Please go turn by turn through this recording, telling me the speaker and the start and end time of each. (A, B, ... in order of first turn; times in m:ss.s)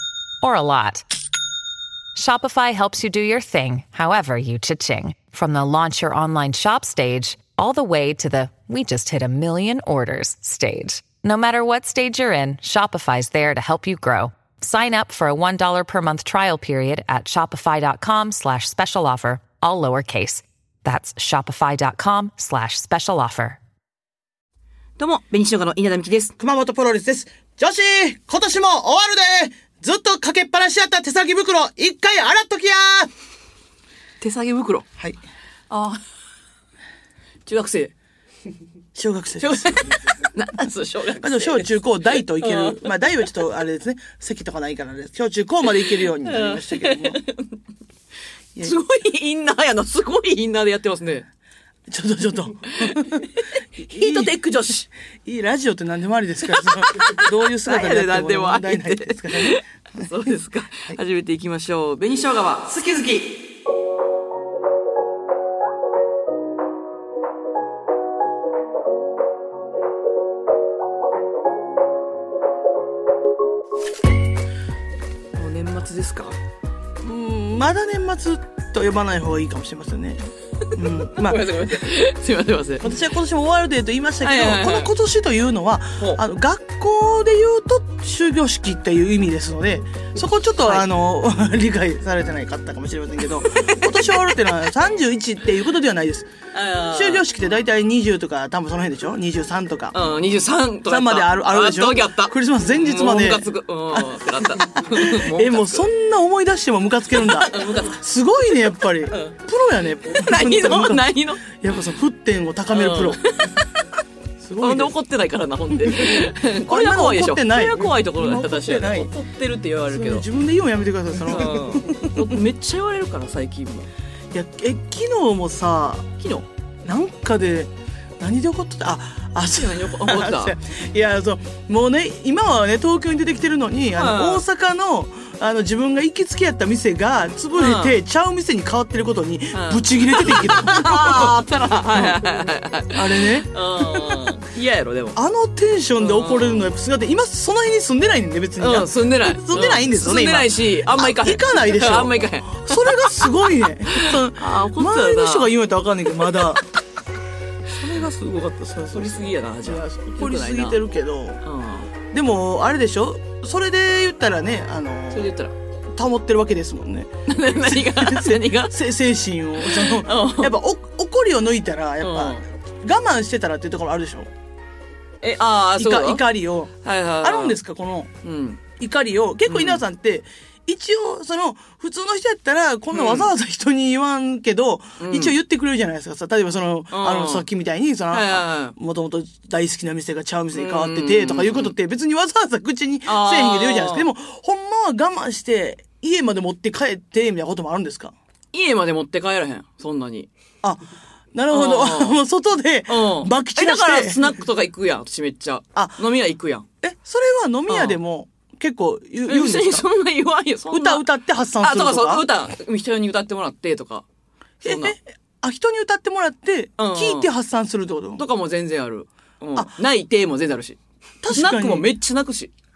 0:00.4-0:01.0 A
0:02.1-0:23.6 A
0:25.0-0:26.3 B
0:26.4-0:33.1 C
0:34.2-0:34.8 B
0:35.7-0:36.0 B
0:37.4-0:37.9 B
0:38.9-0:40.0 C
0:39.4-0:42.9 B
0:41.2-0:47.2 C
0:45.7-0:47.5 B
0:48.6-0:51.2 B
0:51.9-0:54.3 C
0:52.8-0:54.9 B
0:55.2-0:59.6 C
0:56.5-1:03.3 B
1:15.4-1:16.4 B
1:17.0-1:20.2 C
1:20.7-1:21.5 C
1:20.8-1:22.9 B
1:22.8-1:36.3 C
1:24.2-1:24.9 B
1:30.6-1:30.9 B
1:33.5-1:34.2 B
1:36.5-1:37.3 B
1:36.9-1:40.0 C
1:39.9-1:45.8 B
1:40.8-1:44.2 C
1:44.9-1:53.2 C
1:47.2-1:48.0 B
1:49.1-1:49.4 B
1:50.1-1:51.4 B
1:52.7-1:53.8 B
1:54.4-1:54.9 C
1:54.6-2:00.2 B
1:55.9-1:59.1 C
1:59.9-2:02.4 C
2:01.3-2:03.9 B
2:04.3-2:06.1 C
2:06.2-2:06.4 B
2:06.8-2:22.2 C
2:09.5-2:10.5 B
2:13.9-2:14.4 B
2:17.5-2:18.0 B
2:19.5-2:25.2 B
2:22.9-2:24.3 C
2:25.1-2:36.6 C
2:26.0-2:26.7 B
2:28.6-2:33.1 B
2:33.9-2:35.5 B
2:37.7-2:41.4 C
2:38.9-2:40.8 B
2:41.4-2:41.9 B
2:42.1-2:45.3 C
2:45.1-2:45.5 B
2:45.9-2:54.3 C
2:47.3-2:48.7 B
2:49.6-2:50.6 B
2:52.0-2:52.4 B
2:55.2-2:56.2 B
2:55.8-2:58.1 C
2:56.8-2:57.6 B
2:58.2-2:58.6 B
2:58.8-3:18.1 C
2:59.5-2:59.8 B
3:02.9-3:03.3 B
3:05.0-3:05.3 B
3:06.9-3:07.4 B
3:08.1-3:08.7 B
3:10.5-3:11.7 B
3:13.0-3:14.1 B
3:18.5-3:20.3 B
3:21.3-3:24.3 C
3:21.5-3:22.2 B
3:22.9-3:26.6 B
3:25.7-3:26.0 C
3:26.8-3:29.8 C
3:27.7-3:28.0 B
3:29.3-3:31.0 B
3:30.7-3:32.3 C
3:31.6-3:34.0 B
3:34.6-3:34.9 B
3:34.6-3:38.2 C
3:36.8-3:37.3 B
3:38.2-3:40.8 B
3:41.2-3:41.9 C
3:41.3-3:42.5 B